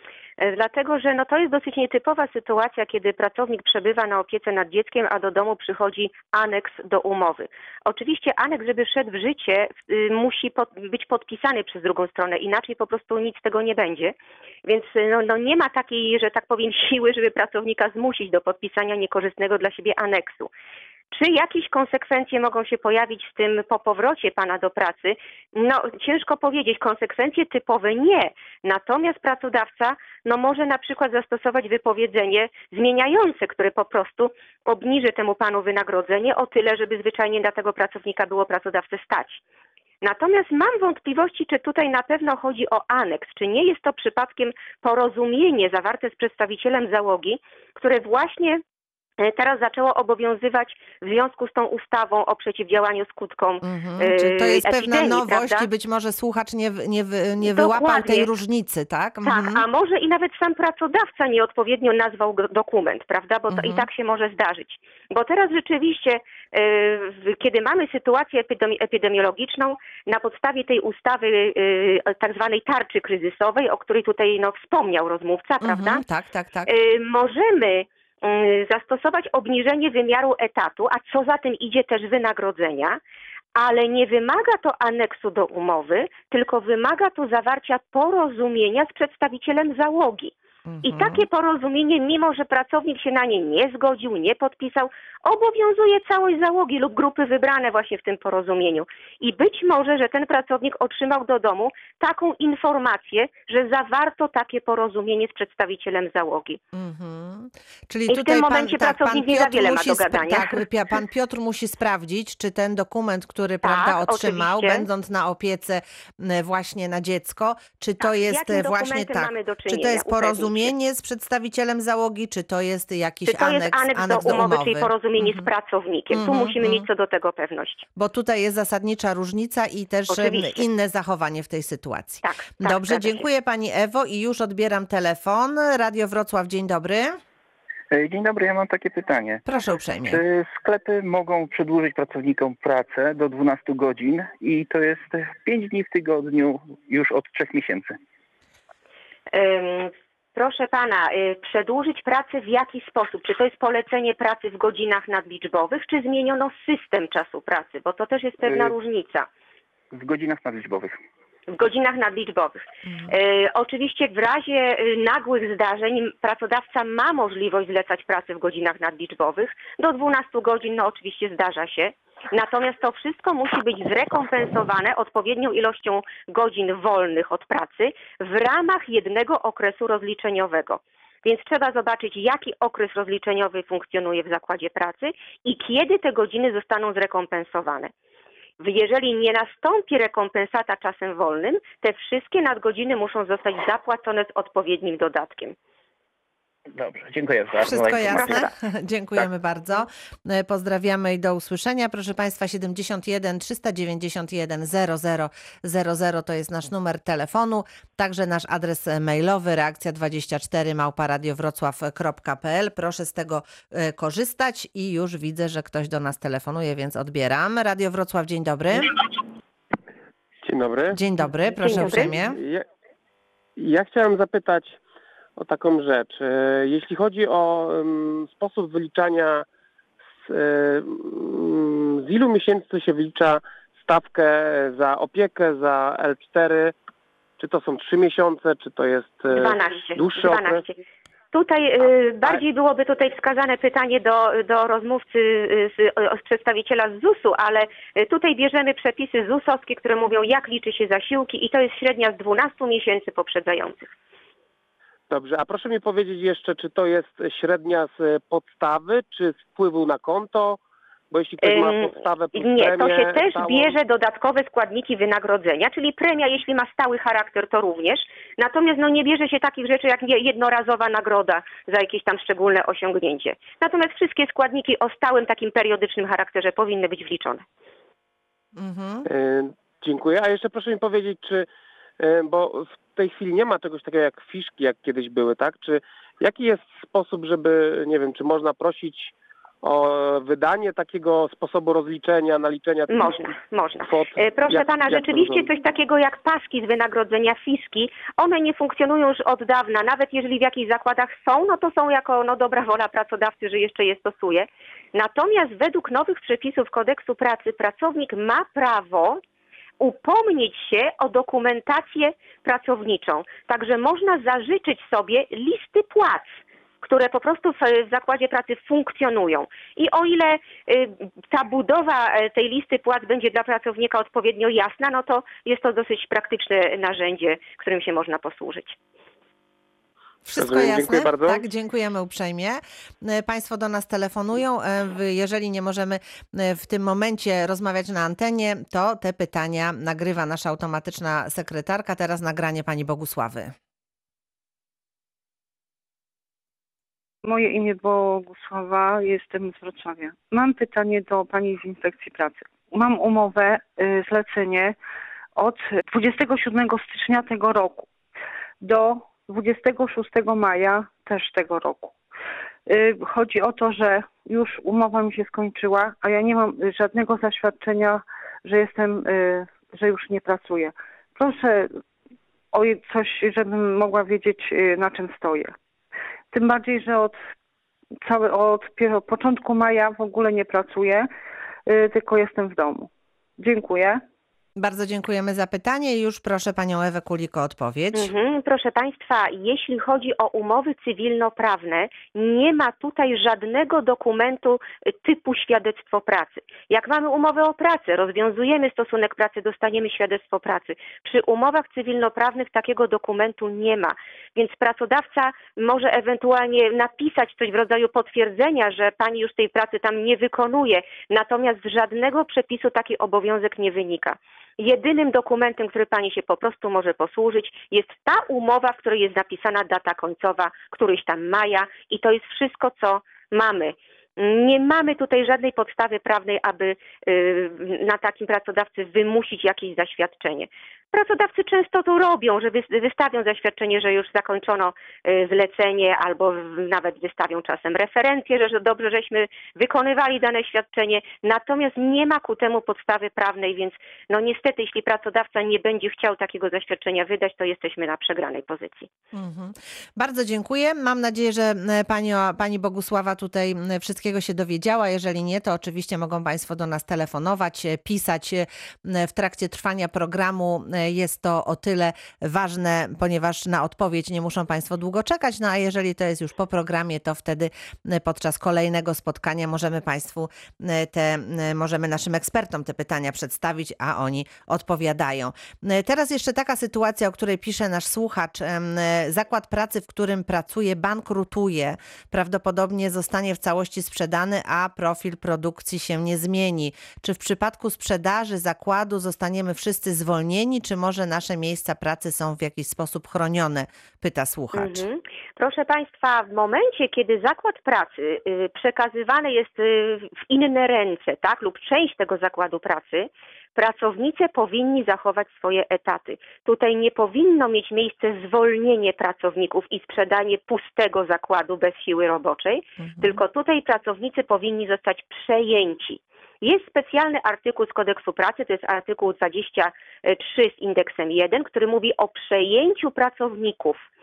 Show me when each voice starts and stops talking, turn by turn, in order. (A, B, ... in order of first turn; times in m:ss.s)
0:00.4-0:14.1 A
0:14.6-0:20.5 A
0:21.1-0:39.4 A
0:40.0-0:48.6 A
0:49.2-0:55.7 A
0:53.6-0:59.6 B
0:57.4-0:58.3 A
0:59.2-1:16.0 A
1:03.5-1:03.9 B
1:15.6-1:16.7 B
1:16.7-1:23.0 A
1:23.5-1:30.3 A
1:30.6-1:31.2 B
1:30.8-1:46.6 A
1:46.7-2:05.5 B
1:48.1-1:50.6 A
1:53.6-1:54.9 A
1:58.0-2:00.7 A
2:03.2-2:07.8 A
2:06.1-2:06.8 B
2:08.0-2:17.1 B
2:10.1-2:10.6 A
2:12.2-2:13.2 A
2:17.9-2:19.4 C
2:19.4-2:20.2 B
2:20.1-2:28.0 C
2:29.3-2:39.3 A
2:38.4-2:38.7 C
2:39.9-2:40.9 C
2:41.5-3:07.9 A
2:42.9-2:43.1 B
3:08.6-3:15.5 A
3:16.7-3:18.5 C
3:17.6-3:38.9 B
3:18.2-3:18.5 A
3:40.4-3:41.0 D
3:40.9-3:42.4 B
3:41.6-3:42.2 A
3:41.6-3:42.6 D
3:43.6-3:44.8 D
3:45.4-3:49.4 D
3:50.2-3:56.7 D
3:57.4-4:00.6 D
3:59.3-4:00.8 A
4:01.3-4:13.9 A
4:15.1-4:20.6 D
4:21.1-4:23.8 D
4:21.4-4:37.4 A
4:38.6-4:39.0 B
4:39.0-4:41.5 D
4:42.0-4:53.2 D
4:52.9-5:09.2 A
4:53.8-4:55.5 D
5:09.8-5:28.8 A
5:30.2-5:43.5 B
5:30.4-5:31.4 D
5:47.2-5:54.8 E
5:55.4-5:57.9 E
5:58.6-6:01.9 E
6:02.7-6:11.7 E
6:12.5-6:15.5 E
6:16.3-6:17.2 E
6:18.0-6:21.1 E
6:21.7-6:24.0 E
6:24.6-6:28.1 B
6:27.9-7:28.9 A
7:29.1-8:14.8 B
8:14.5-8:43.8 A
8:32.8-8:33.2 B